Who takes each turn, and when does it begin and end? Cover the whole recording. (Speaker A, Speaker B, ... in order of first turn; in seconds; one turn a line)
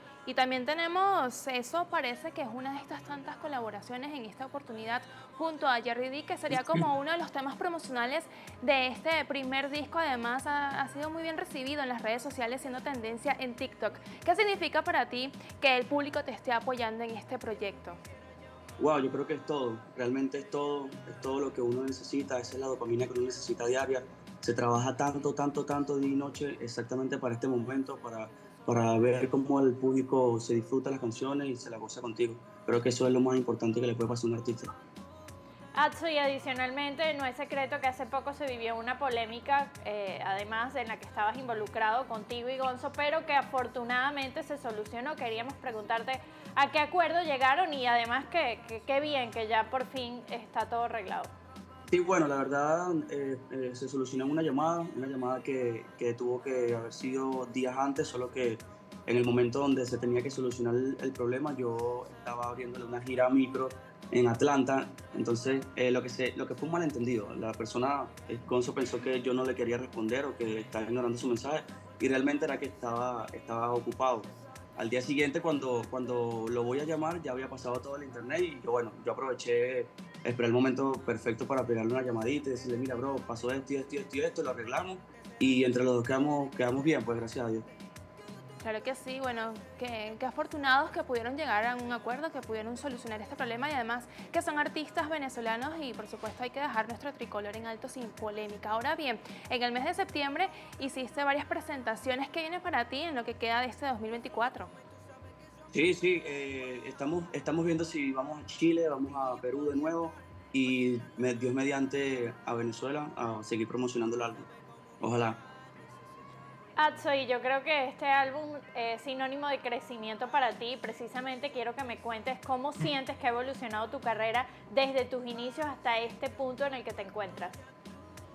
Speaker A: 0.3-18.0
Speaker B: 6.5-6.8
Speaker B: 18.8-34.7
Speaker C: 35.8-51.3
Speaker B: 51.9-87.7
Speaker A: 88.6-104.7
Speaker B: 105.7-114.5
Speaker B: 115.0-115.4
Speaker C: 116.8-127.6